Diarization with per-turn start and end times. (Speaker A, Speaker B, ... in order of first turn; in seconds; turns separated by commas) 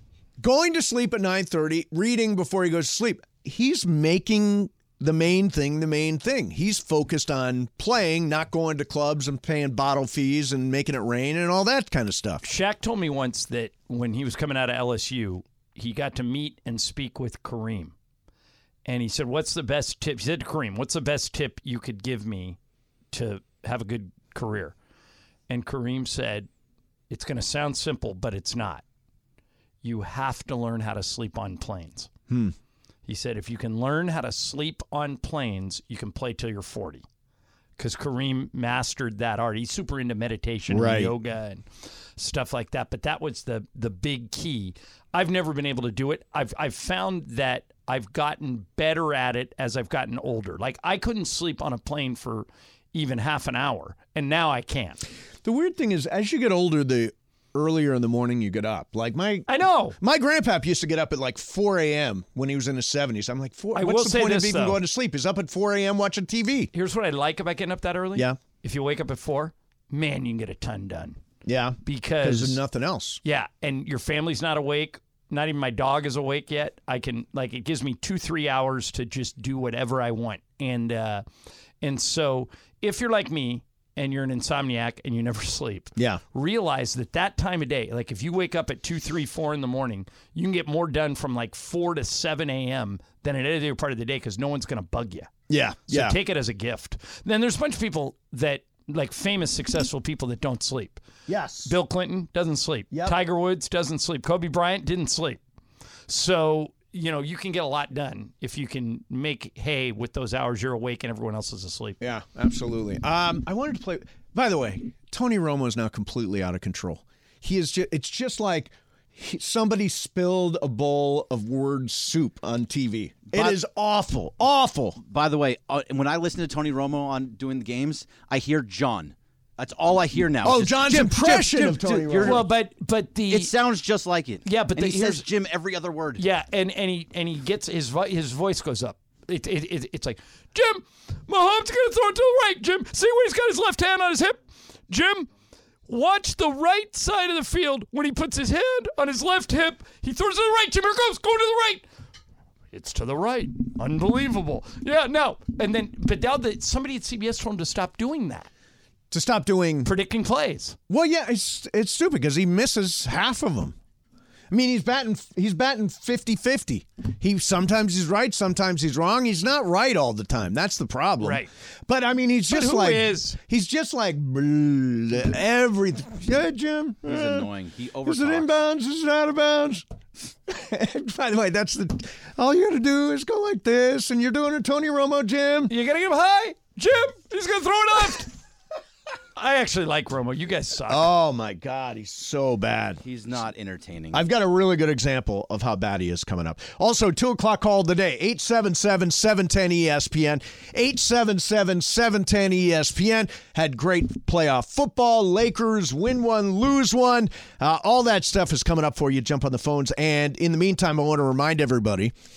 Speaker A: 0.4-12.4, Speaker B: 12.4-17.9, Speaker B: 18.8-22.6, Speaker B: 23.1-24.7, Speaker B: 25.5-26.5, Speaker B: 27.1-28.8, Speaker B: 29.8-32.1, Speaker B: 33.1-37.0, Speaker B: 37.8-41.6, Speaker A: 40.7-41.1, Speaker B: 42.2-55.0, Speaker A: 55.4-59.5, Speaker B: 59.5-60.0, Speaker A: 60.0-66.7, Speaker B: 63.7-64.8, Speaker B: 66.7-71.2, Speaker A: 71.4-73.2, Speaker B: 71.8-72.6, Speaker B: 73.2-81.2, Speaker B: 81.8-95.3, Speaker A: 86.0-86.2, Speaker A: 95.5-96.2, Speaker B: 95.9-101.0, Speaker A: 101.3-101.8, Speaker B: 101.7-105.4, Speaker A: 102.9-103.2, Speaker B: 106.1-112.0, Speaker A: 112.0-125.0, Speaker C: 123.3-123.6, Speaker C: 125.0-132.5, Speaker A: 130.4-132.5, Speaker B: 132.2-133.5, Speaker C: 133.3-136.2, Speaker B: 134.4-135.2, Speaker B: 136.2-145.3, Speaker B: 145.9-151.8, Speaker B: 152.7-158.5, Speaker A: 159.1-159.9, Speaker B: 159.8-160.8, Speaker A: 160.9-163.8, Speaker A: 164.5-177.5, Speaker B: 171.2-171.5, Speaker B: 172.5-173.4, Speaker C: 177.0-178.5, Speaker A: 178.1-179.8, Speaker A: 180.5-185.7, Speaker B: 185.7-188.3, Speaker B: 189.3-191.1, Speaker A: 190.9-193.0, Speaker C: 193.0-194.2, Speaker A: 194.1-212.1